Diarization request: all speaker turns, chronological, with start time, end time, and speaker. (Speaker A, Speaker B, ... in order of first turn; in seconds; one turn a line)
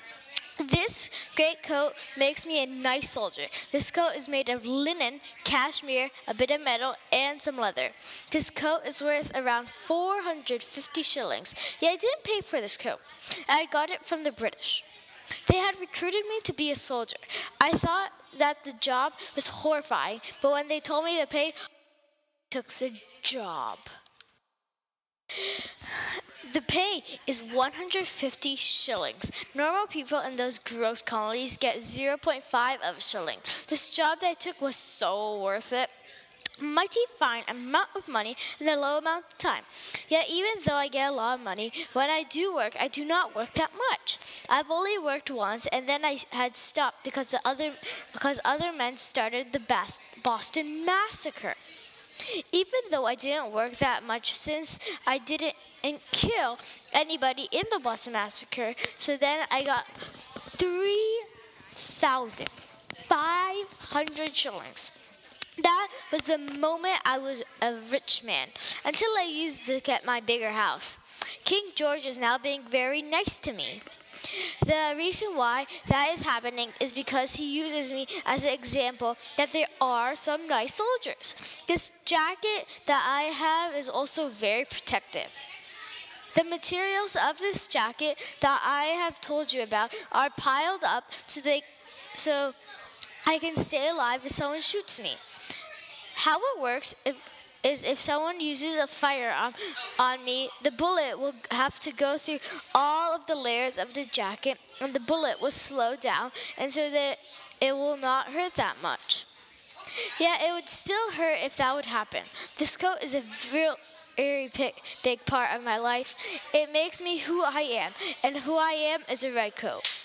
Speaker A: 0.6-14.8
Speaker A: 15.4-21.6
Speaker A: 22.5-23.9
Speaker A: 25.3-35.9
Speaker A: 36.6-51.6
Speaker A: 52.2-64.9
Speaker A: 65.6-85.4
Speaker A: 86.3-92.6
Speaker A: 93.2-95.6
Speaker A: 96.1-109.3
Speaker A: 109.9-119.9